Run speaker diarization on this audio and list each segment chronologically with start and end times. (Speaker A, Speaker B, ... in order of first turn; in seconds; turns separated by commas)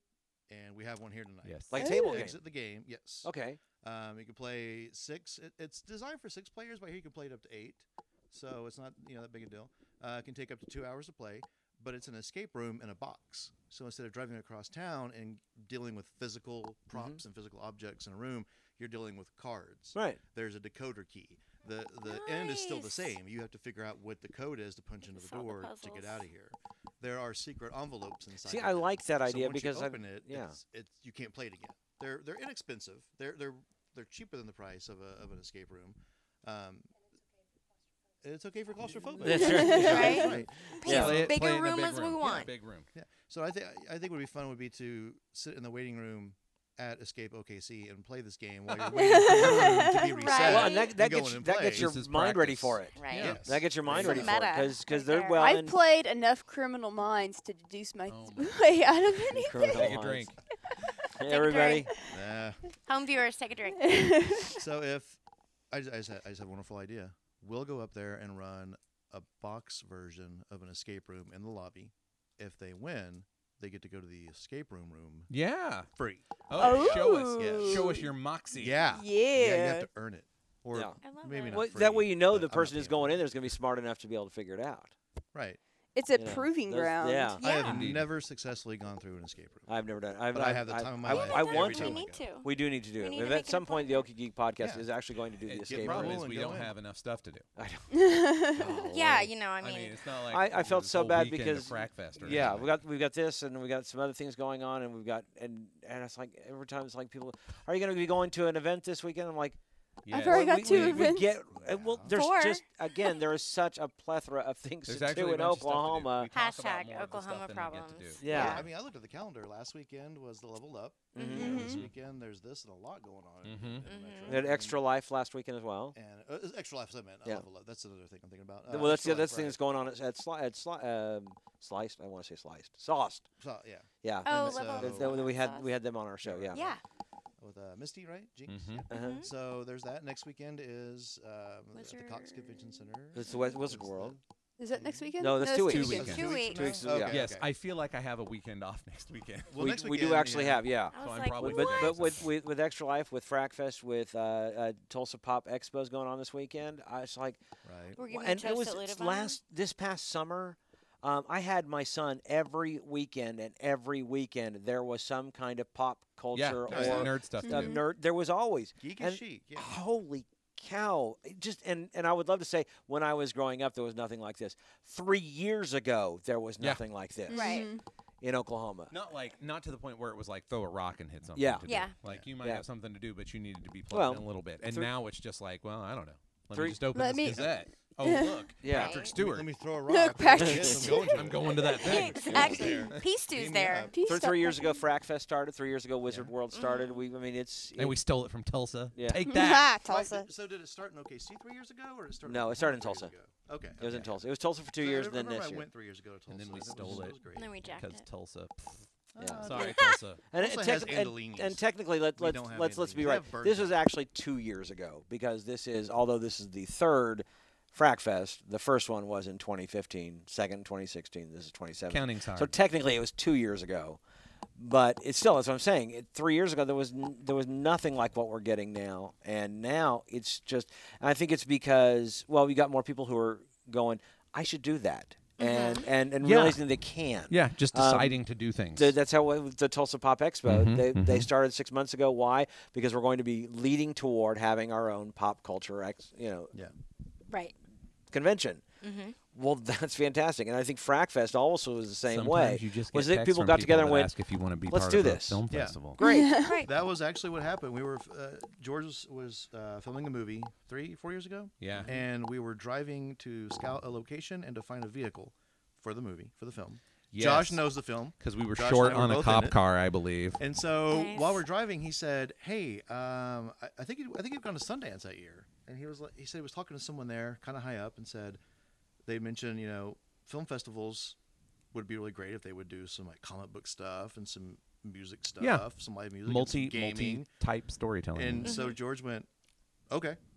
Speaker A: 0.5-3.3, Speaker B: 1.4-1.9, Speaker C: 1.7-2.4, Speaker D: 1.8-2.3, Speaker C: 3.2-3.6, Speaker A: 3.8-36.9, Speaker C: 16.9-17.2, Speaker C: 19.9-20.2, Speaker E: 22.1-23.2, Speaker E: 25.1-26.3, Speaker C: 28.4-30.6, Speaker A: 38.2-41.3, Speaker C: 39.2-41.3, Speaker D: 39.3-40.3, Speaker E: 39.6-42.5, Speaker B: 40.8-42.9, Speaker A: 42.2-51.9, Speaker B: 48.8-50.0, Speaker D: 49.0-50.4, Speaker E: 49.9-50.9, Speaker C: 50.4-55.8, Speaker B: 51.7-53.4, Speaker E: 53.0-55.6, Speaker A: 53.1-54.6, Speaker D: 55.4-59.9, Speaker B: 58.1-60.4, Speaker C: 59.3-60.3, Speaker C: 61.1-61.9, Speaker E: 61.2-61.9, Speaker A: 62.1-62.6, Speaker E: 62.9-64.5, Speaker D: 63.9-64.5, Speaker A: 64.5-65.2, Speaker A: 65.7-75.3, Speaker B: 75.3-75.9, Speaker A: 76.0-83.3, Speaker B: 76.5-78.8, Speaker D: 76.6-78.1, Speaker D: 78.9-79.9, Speaker C: 80.7-81.0, Speaker E: 81.0-81.7, Speaker C: 81.5-84.9, Speaker A: 85.3-85.6, Speaker D: 86.0-87.8, Speaker C: 86.1-87.5, Speaker E: 87.4-87.9, Speaker A: 87.5-89.7, Speaker B: 87.6-88.1, Speaker C: 89.7-96.3, Speaker A: 90.3-92.3, Speaker E: 91.0-94.1, Speaker A: 94.6-94.9, Speaker B: 95.5-97.5, Speaker A: 95.7-96.8, Speaker C: 97.6-97.9, Speaker D: 97.9-98.7, Speaker C: 98.6-99.3, Speaker B: 98.6-102.7, Speaker E: 98.6-100.0, Speaker C: 100.3-109.6, Speaker B: 110.0-111.1, Speaker D: 110.1-111.3, Speaker C: 110.1-116.3, Speaker A: 111.5-112.2, Speaker E: 112.1-113.2, Speaker B: 114.9-118.4, Speaker E: 116.3-118.7, Speaker C: 118.2-118.7, Speaker A: 118.2-124.8, Speaker E: 121.2-121.5, Speaker C: 121.2-121.8, Speaker D: 121.3-121.8, Speaker B: 121.5-121.9, Speaker B: 123.4-123.9, Speaker E: 123.8-124.4, Speaker C: 124.2-126.0, Speaker A: 126.0-129.6, Speaker C: 128.7-133.3, Speaker A: 133.4-135.3, Speaker C: 134.0-136.7, Speaker E: 134.2-135.8, Speaker A: 136.2-136.8, Speaker E: 136.5-136.8, Speaker A: 137.4-144.2, Speaker B: 138.5-138.8, Speaker C: 138.9-139.2, Speaker E: 138.9-139.3, Speaker E: 141.7-142.8, Speaker C: 143.1-144.2, Speaker D: 144.6-146.2, Speaker A: 144.7-145.1, Speaker C: 145.2-147.2, Speaker B: 145.6-149.6, Speaker A: 145.9-147.5, Speaker E: 145.9-146.9, Speaker A: 149.5-150.7, Speaker C: 149.6-157.4, Speaker E: 150.9-152.0, Speaker B: 151.0-152.3, Speaker A: 157.6-158.0, Speaker E: 158.0-159.4, Speaker C: 158.0-177.7, Speaker B: 166.3-167.8, Speaker A: 166.7-167.2, Speaker D: 167.4-167.8, Speaker A: 168.8-169.8, Speaker B: 176.6-176.8, Speaker D: 177.3-177.8, Speaker E: 177.3-177.7, Speaker C: 178.2-178.9, Speaker B: 178.9-189.5, Speaker C: 181.3-181.7, Speaker E: 181.7-181.9, Speaker C: 182.4-182.7, Speaker C: 183.9-184.9, Speaker C: 186.5-186.8, Speaker D: 186.9-187.5, Speaker A: 187.3-187.6, Speaker D: 188.0-188.5, Speaker C: 188.6-189.0, Speaker E: 188.7-189.1, Speaker A: 188.7-194.0, Speaker D: 189.9-192.9, Speaker C: 190.4-190.7, Speaker B: 191.1-193.1, Speaker E: 191.7-193.9, Speaker C: 192.3-192.6, Speaker D: 193.9-194.8, Speaker C: 194.0-198.0, Speaker A: 196.1-196.3, Speaker E: 196.5-197.0, Speaker B: 197.8-199.8, Speaker C: 198.9-199.2, Speaker D: 199.2-200.3, Speaker A: 199.8-204.2, Speaker C: 202.3-203.1, Speaker C: 203.8-205.7, Speaker A: 204.8-207.6, Speaker B: 206.3-208.9, Speaker E: 207.3-208.0, Speaker A: 209.1-211.6, Speaker C: 209.2-209.6, Speaker B: 209.4-210.3, Speaker E: 209.5-210.0, Speaker C: 210.3-224.0, Speaker A: 212.2-213.8, Speaker B: 221.9-222.5, Speaker C: 224.6-238.2, Speaker E: 235.4-235.9, Speaker B: 236.2-236.6, Speaker B: 237.3-238.9, Speaker C: 238.8-246.5, Speaker B: 240.5-241.3, Speaker C: 248.1-248.6, Speaker E: 248.8-249.2, Speaker C: 249.3-254.1, Speaker B: 252.1-256.0, Speaker C: 254.7-255.4, Speaker A: 255.5-255.9, Speaker C: 256.0-256.3, Speaker E: 256.0-256.7, Speaker D: 256.0-256.6, Speaker A: 256.6-269.6, Speaker B: 261.6-261.9, Speaker B: 267.1-270.4, Speaker A: 270.4-278.4, Speaker E: 270.9-271.4, Speaker A: 279.1-281.2, Speaker A: 281.7-287.3, Speaker B: 285.4-288.5, Speaker A: 288.1-289.3, Speaker E: 288.4-288.8, Speaker A: 289.9-290.2